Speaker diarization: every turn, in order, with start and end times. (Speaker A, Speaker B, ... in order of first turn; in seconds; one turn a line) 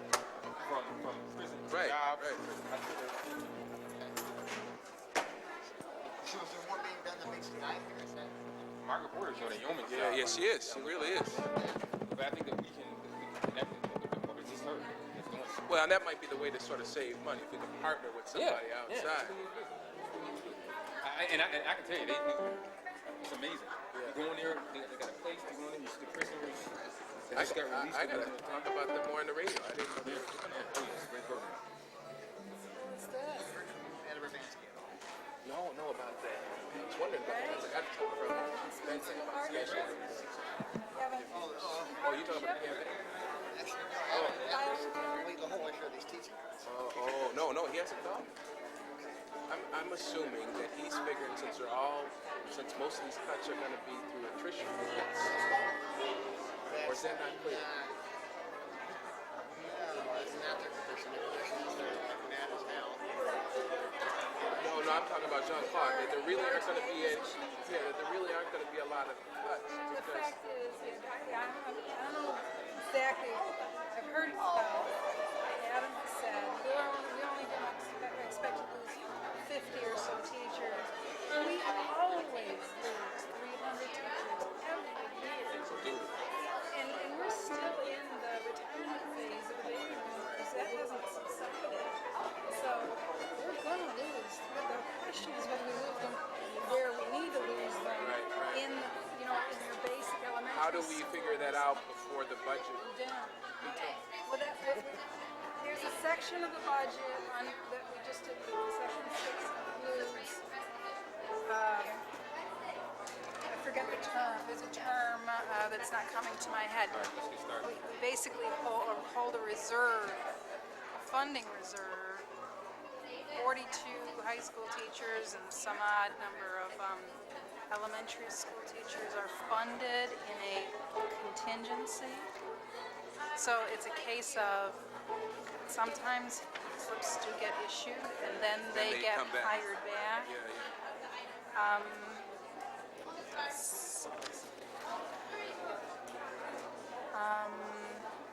Speaker A: 0.6-3.8
Speaker B: 1.7-2.4
Speaker C: 6.1-8.4
Speaker A: 8.8-15.7
Speaker C: 9.4-9.7
Speaker B: 9.8-11.4
Speaker C: 11.2-11.8
Speaker B: 15.7-19.4
Speaker A: 18.3-28.7
Speaker B: 23.9-24.2
Speaker B: 27.3-31.5
Speaker A: 30.0-31.6
Speaker D: 32.8-33.5
Speaker C: 33.1-34.9
Speaker B: 35.4-40.6
Speaker D: 37.2-40.0
Speaker C: 39.0-40.3
Speaker D: 40.9-42.9
Speaker B: 41.1-43.0
Speaker C: 41.3-42.1
Speaker C: 43.5-47.6
Speaker B: 44.1-44.5
Speaker D: 44.2-45.0
Speaker B: 46.6-48.3
Speaker B: 49.5-55.1
Speaker C: 55.3-56.1
Speaker C: 56.7-58.0
Speaker B: 56.8-57.7
Speaker C: 59.4-63.8
Speaker C: 64.5-64.8
Speaker B: 64.6-70.4
Speaker D: 65.5-68.0
Speaker D: 69.9-75.0
Speaker D: 75.5-85.7
Speaker A: 85.7-86.1
Speaker D: 86.7-92.0
Speaker D: 92.5-101.7
Speaker B: 98.0-98.7
Speaker B: 100.5-102.8
Speaker D: 102.8-105.0
Speaker B: 103.6-104.0
Speaker D: 105.6-110.5
Speaker D: 111.5-112.0
Speaker D: 113.5-120.3
Speaker A: 116.9-117.8
Speaker D: 120.9-122.3
Speaker D: 123.3-132.3
Speaker D: 133.3-134.8
Speaker D: 135.7-140.3
Speaker B: 138.7-139.7
Speaker B: 140.2-140.7
Speaker D: 141.5-142.3
Speaker D: 143.3-144.4
Speaker D: 147.1-148.1